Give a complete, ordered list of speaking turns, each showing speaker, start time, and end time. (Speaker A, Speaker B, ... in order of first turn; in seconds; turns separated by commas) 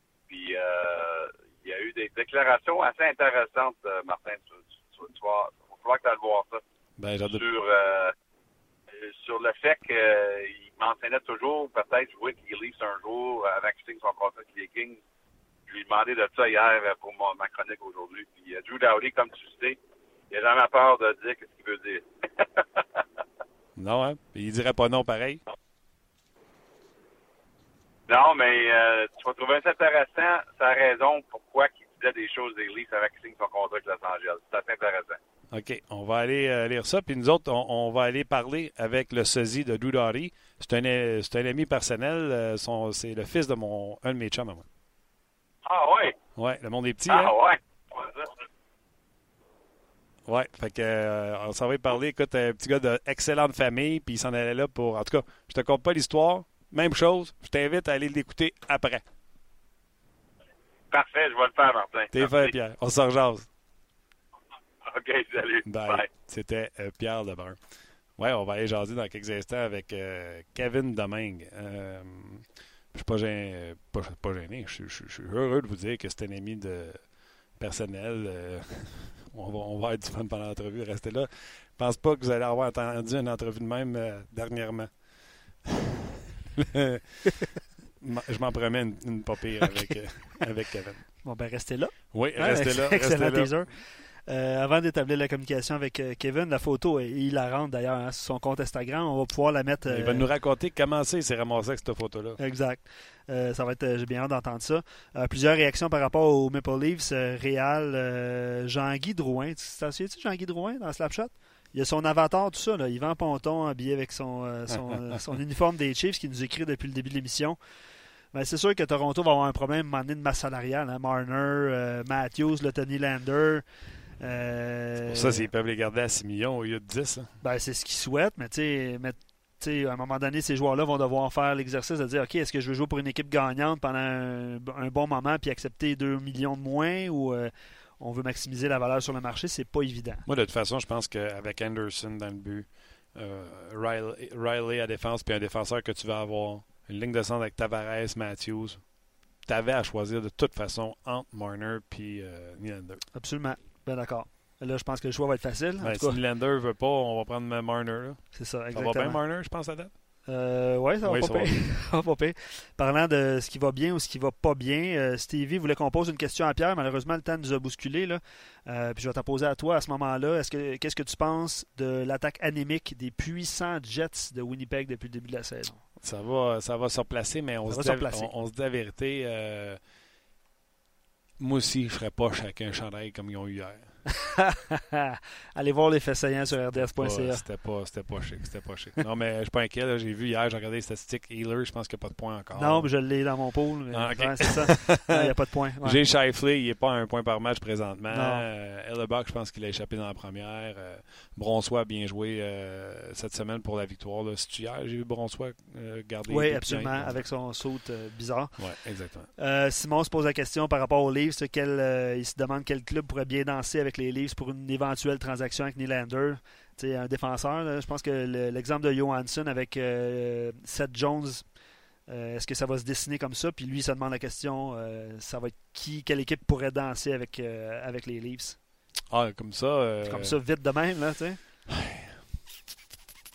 Speaker A: 0.3-6.6, Speaker B: 7.0-7.4, Speaker A: 7.3-8.1, Speaker A: 8.9-15.0, Speaker A: 15.7-19.8, Speaker A: 20.3-23.0, Speaker B: 23.8-25.4, Speaker A: 28.1-35.2, Speaker B: 35.5-44.6, Speaker A: 45.6-46.1, Speaker B: 46.4-47.3, Speaker A: 47.1-48.3, Speaker B: 50.2-59.0, Speaker A: 60.9-62.5, Speaker B: 62.1-63.5, Speaker A: 64.8-66.1, Speaker B: 65.7-67.6, Speaker B: 68.2-85.9, Speaker B: 86.7-87.4, Speaker B: 88.0-91.3, Speaker C: 91.2-100.3, Speaker B: 92.1-93.7, Speaker B: 99.8-102.4, Speaker C: 102.4-117.6, Speaker C: 118.3-125.5, Speaker B: 125.1-127.4, Speaker C: 127.4-140.2, Speaker B: 140.2-148.9, Speaker B: 149.4-153.1, Speaker C: 153.1-156.2, Speaker B: 155.8-160.0, Speaker C: 158.3-159.2, Speaker C: 160.2-175.8, Speaker B: 161.0-161.7, Speaker B: 176.0-179.8, Speaker C: 177.7-178.3, Speaker B: 181.4-184.0, Speaker C: 184.4-187.5, Speaker B: 186.5-193.0, Speaker C: 192.6-196.0, Speaker B: 193.9-207.4, Speaker C: 198.1-198.4, Speaker C: 206.3-221.6, Speaker B: 208.6-209.3, Speaker C: 222.1-228.6, Speaker B: 229.1-230.4, Speaker C: 230.0-231.4, Speaker B: 231.7-232.1